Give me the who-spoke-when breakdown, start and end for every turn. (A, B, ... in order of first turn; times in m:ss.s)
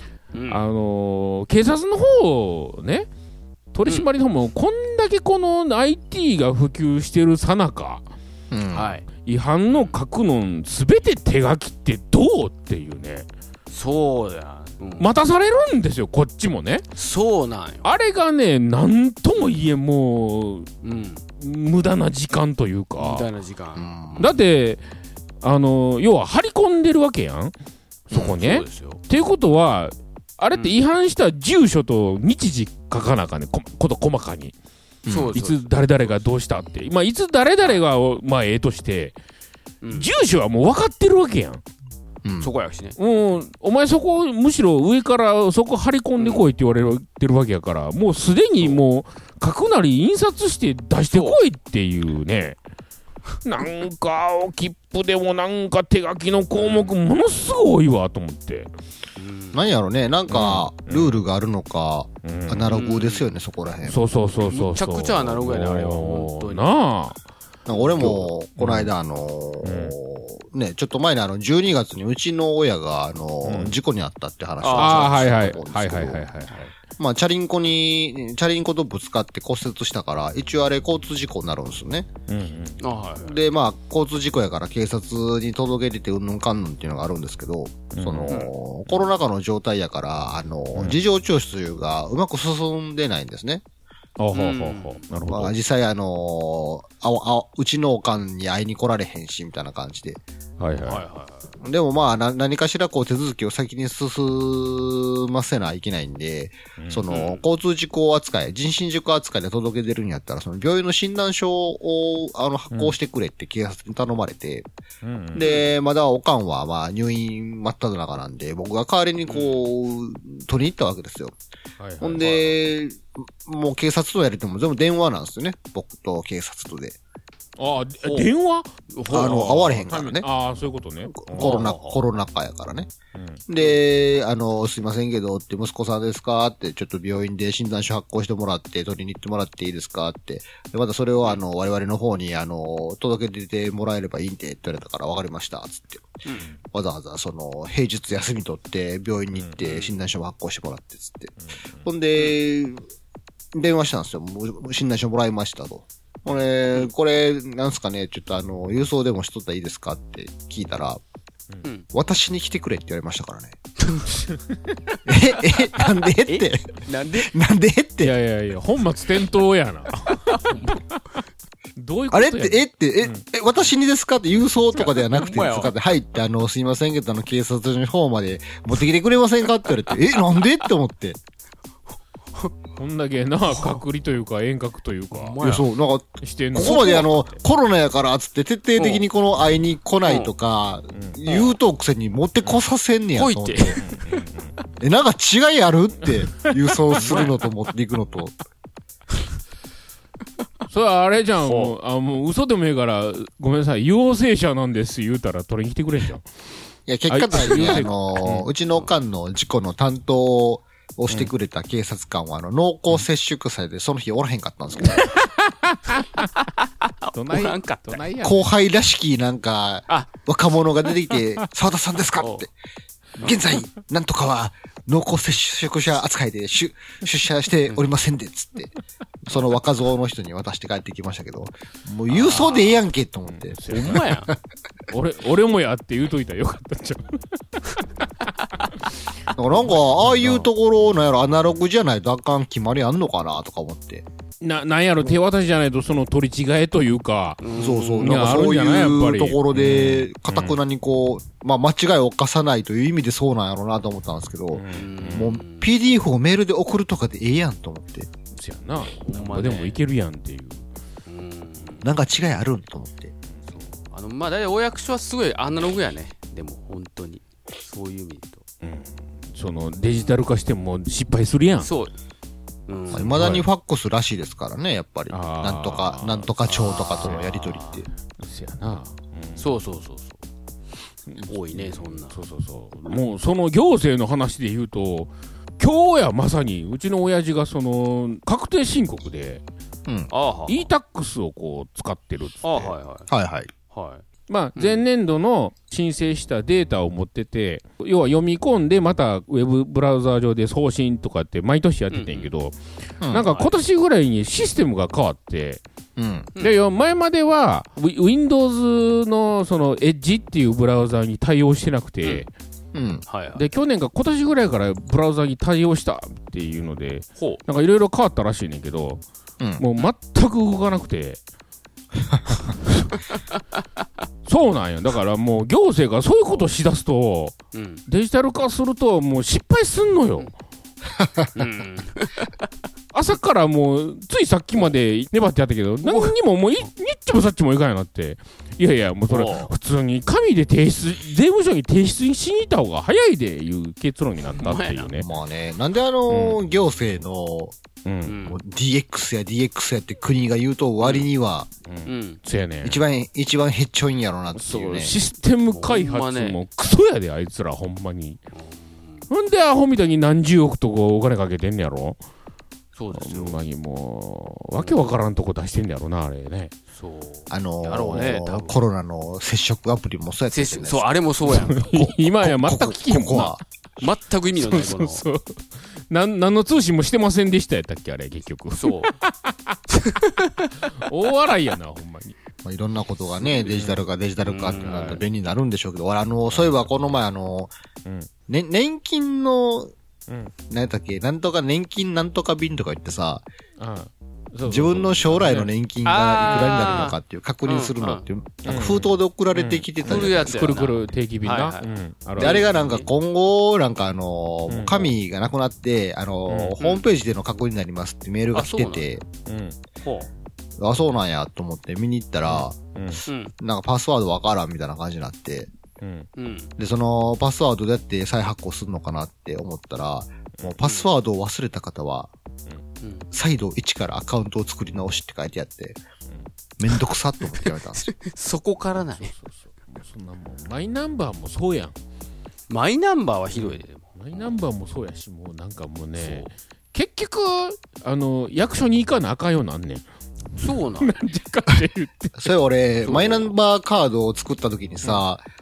0:00.3-0:00.6 A
0:00.5-0:03.1 B
0:03.7-0:08.0 B
0:08.5-0:09.0 C
0:08.7-0:09.0 A
0:09.2-0:13.3 B
0:09.7-0:10.0 A
0:13.7-0:15.1 A
0:15.0-0:16.8 B
0:16.9-0:17.9 A
0:17.8-0:20.7 B
0:20.8-0:21.2 A
0:21.4-0:23.3 B
0:23.0-0:24.4 A
0:23.8-0:24.2 C
0:24.2-0:24.8 B
0:25.4-0:27.5 B
0:28.1-0:34.5 B
0:28.1-0:29.0 A
0:35.0-0:35.4 C
0:35.0-0:36.2 A
0:35.3-0:39.1 B
0:39.8-0:40.1 A
0:39.9-0:41.6 B
0:42.2-0:42.5 C
0:42.4-0:43.0 A
0:43.0-0:52.6 B
0:46.2-0:46.4 A
0:51.1-0:51.4 A
0:53.4-0:58.7 B
0:56.6-0:56.9 A
0:59.2-0:59.6 A
0:59.5-1:04.0 C
1:00.3-1:01.2 B
1:02.2-1:02.7 B
1:02.7-1:03.3 A
1:03.9-1:07.2 B
1:04.4-1:06.7 A
1:07.6-1:16.2 C
1:07.7-1:08.2 A
1:08.0-1:08.9 B
1:09.6-1:09.9 B
1:13.4-1:13.7 B
1:14.6-1:15.3 A
1:14.7-1:16.8 B
1:16.9-1:22.1 C
1:22.3-1:22.8 B
1:22.8-1:23.4 A
1:23.2-1:33.6 C
1:27.9-1:28.4 B
1:34.2-1:35.5 B
1:34.3-1:35.0 A
1:35.3-1:40.2 C
1:40.6-1:41.0 B
1:40.8-1:41.5 A
1:41.6-1:54.7 C
1:46.8-1:47.0 B
1:47.1-1:47.4 A
1:55.0-1:55.4 B
1:55.3-2:01.4 C
1:55.4-1:55.7 A
1:59.3-1:59.6 A
2:01.8-2:02.5 B
2:02.0-2:07.0 C
2:07.6-2:11.6 B
2:08.9-2:09.8 A
2:09.1-2:10.2 C
2:11.1-2:12.9 C
2:11.4-2:12.0 A
2:13.1-2:13.4 B
2:13.5-2:26.2 C
2:26.2-2:26.5 A
2:26.7-2:32.8 C
2:29.6-2:30.0 A
2:33.5-2:41.0 C
2:41.9-2:43.6 C
2:43.8-2:44.2 A
2:44.3-2:44.6 B
2:45.0-2:48.1 C
2:45.4-2:47.3 A
2:48.0-2:50.8 B
2:50.2-2:50.7 A
2:51.8-2:53.2 B
2:52.1-3:01.2 C
2:54.7-2:55.7 A
3:02.8-3:05.4 B
3:05.1-3:05.7 A
3:05.4-3:13.8 C
3:06.2-3:07.4 B
3:08.8-3:09.0 A
3:10.0-3:10.3 A
3:11.2-3:11.6 A
3:13.1-3:13.8 A
3:13.8-3:14.5 B
3:14.8-3:18.3 C
3:16.3-3:17.3 B
3:20.7-3:26.2 B
3:21.4-3:21.7 A
3:26.9-3:35.1 C
3:27.1-3:28.5 B
3:35.1-3:36.3 B
3:36.4-3:38.0 A
3:37.1-3:38.4 B
3:38.2-3:42.5 C
3:42.2-3:42.4 A
3:43.2-3:48.7 C
3:49.2-3:54.3 C
3:52.1-3:52.8 A
3:53.3-3:54.1 B
3:53.7-3:54.3 A
3:54.9-3:57.8 B
3:59.4-4:04.0 C
3:59.6-4:00.5 B
4:04.4-4:07.4 B
4:07.4-4:08.3 A
4:07.5-4:18.1 C
4:08.0-4:10.6 B
4:14.5-4:15.3 B
4:14.7-4:15.7 A
4:18.4-4:20.6 B
4:18.9-4:19.8 A
4:21.0-4:21.9 A
4:21.8-4:23.1 C
4:23.5-4:28.4 A
4:28.6-4:31.7 B
4:31.6-4:31.9 A
4:32.7-4:33.2 A
4:32.9-4:37.9 C
4:33.0-4:33.5 B
4:35.1-4:36.3 B
4:36.4-4:37.8 A
4:37.0-4:37.3 B
4:38.2-4:39.5 B
4:39.4-4:40.2 A
4:41.1-4:49.4 B
4:41.3-4:42.2 A
4:49.8-4:50.1 C
4:50.1-4:50.7 A
4:50.5-4:52.7 B
4:52.4-4:53.1 A
4:53.1-4:53.5 C
4:53.7-4:54.0 A
4:54.3-5:02.6 B
4:54.6-4:54.8 A
5:01.9-5:02.3 A
5:03.0-5:03.2 C
5:03.1-5:05.6 B
5:06.0-5:06.3 C
5:06.4-5:12.3 B
5:12.7-5:13.0 C
5:13.1-5:13.4 A
5:13.4-5:19.0 B
5:17.2-5:17.4 A
5:19.6-5:21.2 B
5:24.2-5:27.3 B
5:27.5-5:27.8 A
5:27.9-5:30.3 B
5:31.0-5:31.3 C
5:31.3-5:32.4 A
5:32.9-5:45.1 B
5:35.8-5:36.2 A
5:39.1-5:39.5 A
5:44.3-5:44.9 A
5:45.0-5:47.5 C
5:46.1-5:46.4 B
5:47.8-5:48.2 B
5:48.0-5:48.4 A
5:48.2-5:51.5 C
5:50.8-5:51.1 A
5:51.7-5:52.8 B
5:51.8-5:52.2 A
5:52.6-5:54.9 C
5:54.3-5:58.2 B
5:55.5-5:56.4 A
5:58.3-5:59.1 A
5:59.1-6:02.0 B
6:02.8-6:03.4 A
6:02.9-6:06.5 B
6:06.7-6:08.6 A
6:07.3-6:11.0 C
6:10.3-6:11.7 A
6:11.3-6:13.4 B
6:11.5-6:13.4 C
6:13.8-6:15.0 A
6:14.3-6:19.6 B
6:18.6-6:18.9 A
6:19.7-6:20.5 A
6:20.8-6:22.2 B
6:22.4-6:27.5 C
6:23.4-6:23.8 B
6:24.2-6:25.0 A
6:24.6-6:25.0 B
6:26.3-6:26.7 B
6:28.3-6:29.7 C
6:30.1-6:30.3 B
6:30.5-6:33.2 C
6:33.6-6:35.5 B
6:34.4-6:40.6 C
6:35.8-6:38.0 A
6:38.4-6:42.4 B
6:39.8-6:42.9 A
6:42.2-6:49.0 C
6:44.5-6:44.9 B
6:46.3-6:46.6 B
6:46.6-6:46.8 A
6:48.3-6:48.9 A
6:49.2-6:49.6 B
6:49.8-6:50.1 A
6:50.6-6:55.5 C
6:52.2-6:53.0 B
6:53.0-6:53.3 A
6:55.8-6:56.1 B
6:56.2-6:56.5 A
6:56.6-7:02.1 C
7:00.6-7:00.9 A
7:02.8-7:03.1 A
7:03.1-7:05.8 C
7:06.6-7:07.9 C
7:07.4-7:09.1 A
7:08.7-7:11.8 B
7:12.5-7:14.2 A
7:13.3-7:19.8 B
7:16.0-7:16.3 A
7:20.4-7:21.0 A
7:20.8-7:22.3 B
7:22.2-7:25.2 C
7:22.8-7:23.3 A